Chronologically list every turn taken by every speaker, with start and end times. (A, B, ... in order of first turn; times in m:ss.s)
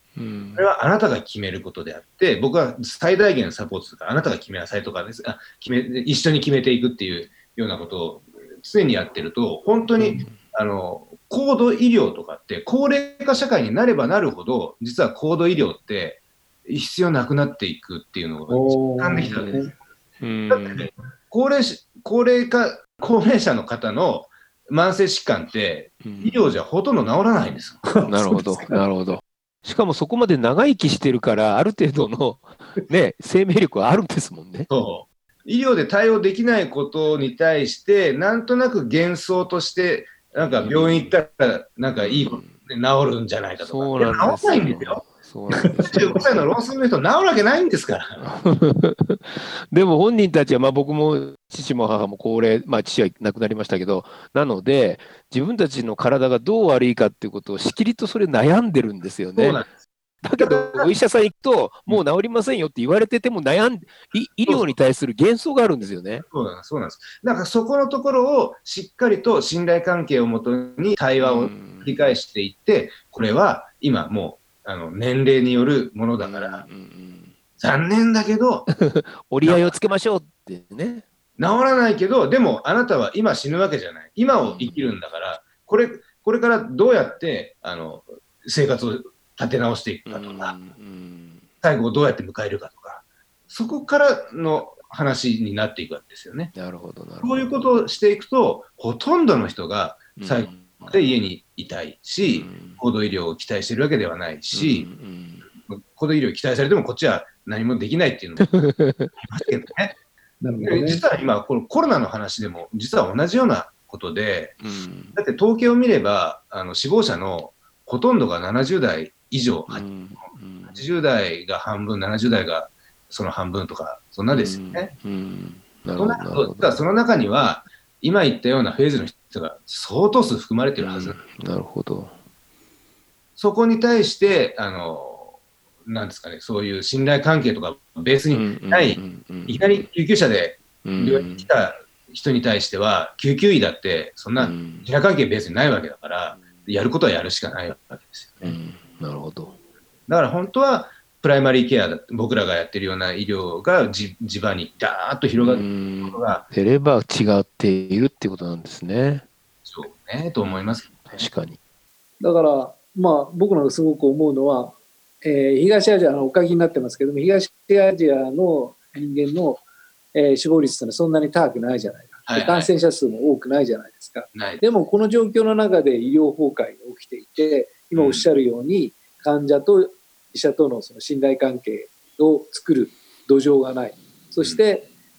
0:00.2-0:00.7 A
0:00.6-0:19.8 B
0:10.0-0:10.4 A
0:18.5-0:19.7 C
0:20.2-0:20.9 A
0:20.5-0:27.8 B
0:26.0-0:26.4 A
0:27.9-0:28.8 C
0:28.0-0:34.7 A
0:34.7-0:45.0 B
0:40.5-0:41.1 A
0:42.0-0:42.6 A
0:43.6-0:46.4 A
0:45.9-0:48.2 B
0:48.2-0:59.6 A
0:59.4-0:59.7 B
1:00.2-1:06.2 A
1:00.4-1:00.9 B
1:04.5-1:04.7 B
1:06.3-1:16.6 B
1:11.2-1:12.1 A
1:16.2-1:17.4 A
1:17.6-1:18.7 B
1:18.7-1:21.0 A
1:19.4-1:19.7 B
1:21.4-1:30.6 B
1:24.5-1:24.9 A
1:30.1-1:31.4 A
1:31.6-1:36.5 B
1:36.5-1:37.4 A
1:37.2-1:44.9 B
1:40.2-1:41.0 A
1:42.3-1:42.8 A
1:44.5-1:45.4 A
1:45.7-1:48.6 B
1:48.5-1:49.1 A
1:49.2-1:50.0 B
1:50.4-1:51.0 C
1:50.6-1:54.6 B
1:54.6-1:55.2 A
1:55.1-1:59.9 B
1:59.7-2:00.8 A
2:00.7-2:04.9 B
2:04.4-2:06.8 A
2:06.0-2:11.2 B
2:10.8-2:12.1 A
2:13.4-2:15.3 B
2:15.8-2:28.6 B
2:18.3-2:19.8 A
2:20.8-2:21.5 A
2:24.4-2:24.9 A
2:26.4-2:26.6 A
2:28.4-2:29.5 A
2:30.1-2:36.4 B
2:35.4-2:39.2 A
2:39.6-2:41.2 B
2:41.0-2:41.6 A
2:42.2-2:49.6 C
2:50.1-3:04.9 C
2:52.3-2:52.7 B
2:54.3-2:54.6 B
2:57.9-2:58.2 B